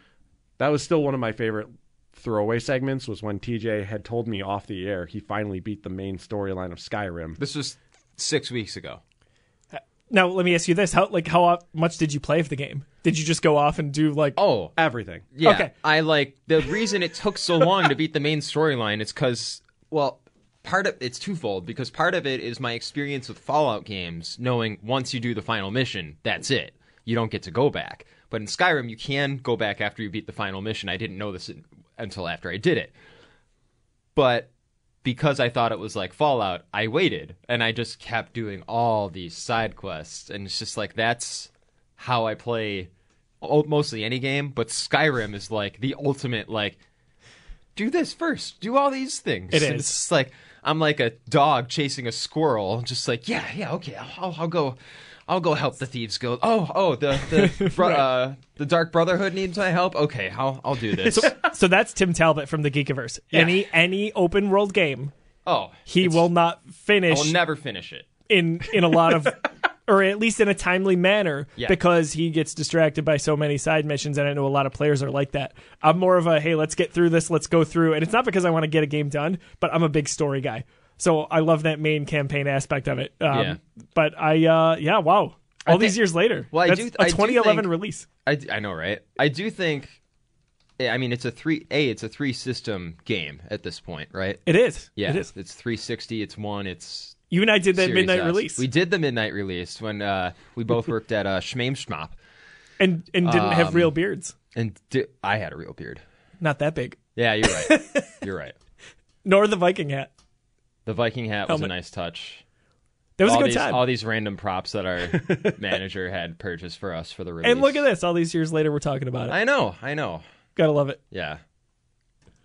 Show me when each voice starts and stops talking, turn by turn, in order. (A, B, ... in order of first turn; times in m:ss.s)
0:00.6-0:07.4 A
0:07.4-0:09.0 B
0:09.7-0:14.4 C
0:14.4-0:14.7 B
0:14.8-0:15.3 A
0:15.3-0:32.9 B
0:15.4-0:15.7 C
0:34.1-0:34.5 B
0:35.0-0:42.9 B
0:43.4-0:46.8 B
0:47.7-1:01.3 B
0:49.5-0:50.0 C
0:57.4-0:58.0 C
1:01.1-1:05.1 C
1:03.3-1:03.6 B
1:05.4-1:06.3 B
1:05.8-1:07.3 C
1:07.1-1:08.1 B
1:08.3-1:28.0 C
1:23.3-1:23.6 B
1:25.7-1:27.7 B
1:28.2-1:30.0 B
1:30.8-1:34.4 B
1:34.4-1:35.3 C
1:35.0-1:42.2 B
1:37.3-1:38.6 C
1:42.8-1:44.3 C
1:43.2-1:43.9 B
1:44.5-1:46.0 B
1:46.4-1:48.1 C
1:47.2-1:48.5 B
1:49.2-1:50.1 C
1:50.8-1:52.4 B
1:53.2-1:53.8 C
1:53.2-1:57.8 B
1:57.4-1:59.3 C
1:59.2-2:00.2 B
2:00.6-2:01.0 C
2:01.1-2:01.4 B